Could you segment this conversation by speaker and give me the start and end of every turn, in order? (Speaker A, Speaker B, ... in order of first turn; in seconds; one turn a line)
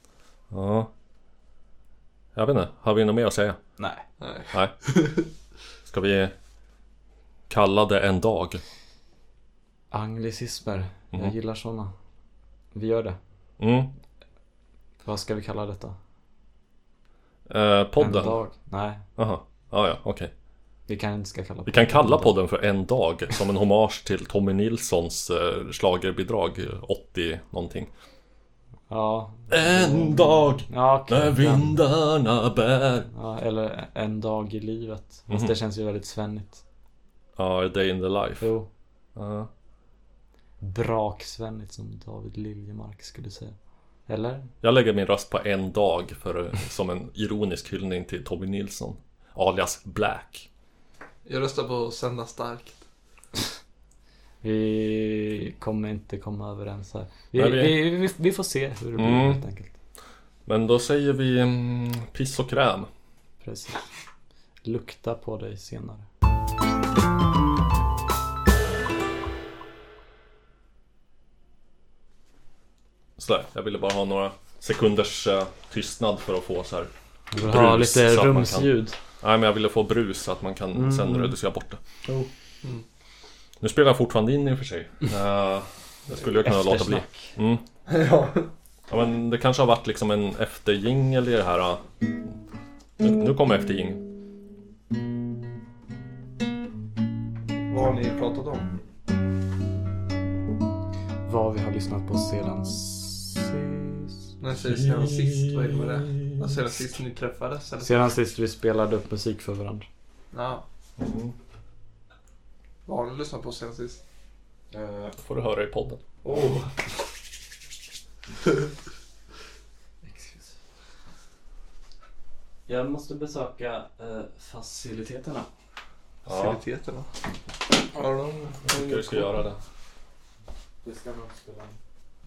Speaker A: 0.5-0.9
Speaker A: 2.4-3.6
Speaker B: 3.8-4.1
Speaker C: 4.2-5.3
Speaker A: 4.5-4.8
Speaker A: 5.8-6.3
Speaker A: 7.5-8.6
Speaker B: 9.9-11.9
Speaker B: 12.7-13.2
Speaker A: 13.6-13.9
Speaker B: 15.1-16.0
Speaker A: 17.5-18.4
Speaker B: 18.0-19.0
Speaker A: 19.2-20.3
Speaker B: 20.9-22.4
Speaker A: 21.7-27.9
Speaker B: 28.9-30.2
Speaker A: 29.5-33.1
Speaker B: 30.7-31.8
Speaker B: 33.1-36.6
Speaker A: 35.3-35.5
Speaker A: 37.4-38.5
Speaker B: 38.4-38.7
Speaker A: 39.2-39.5
Speaker B: 40.6-43.6
Speaker B: 44.1-44.5
Speaker A: 44.6-50.5
Speaker C: 51.2-52.8
Speaker B: 54.4-59.8
Speaker A: 57.4-57.8
Speaker A: 59.0-59.4
Speaker A: 60.5-62.9
Speaker B: 63.4-63.9
Speaker B: 64.6-66.1
Speaker A: 73.2-81.8
Speaker B: 77.3-79.0
Speaker B: 80.7-81.3
Speaker B: 82.0-82.3
Speaker A: 83.6-87.7
Speaker B: 86.2-87.4
Speaker C: 87.9-88.5
Speaker A: 88.9-91.9
Speaker A: 93.0-94.0
Speaker C: 97.7-98.7
Speaker B: 101.2-104.3
Speaker C: 104.4-108.0
Speaker B: 107.8-109.9
Speaker C: 110.3-110.7
Speaker A: 111.0-111.3
Speaker C: 112.9-114.0
Speaker B: 114.7-115.1
Speaker A: 115.1-116.0
Speaker B: 116.2-116.8
Speaker C: 116.3-116.7
Speaker B: 120.0-120.6
Speaker B: 122.7-125.5
Speaker A: 126.3-126.6
Speaker C: 126.3-127.2
Speaker C: 127.8-129.4
Speaker A: 128.6-129.6
Speaker B: 130.8-131.8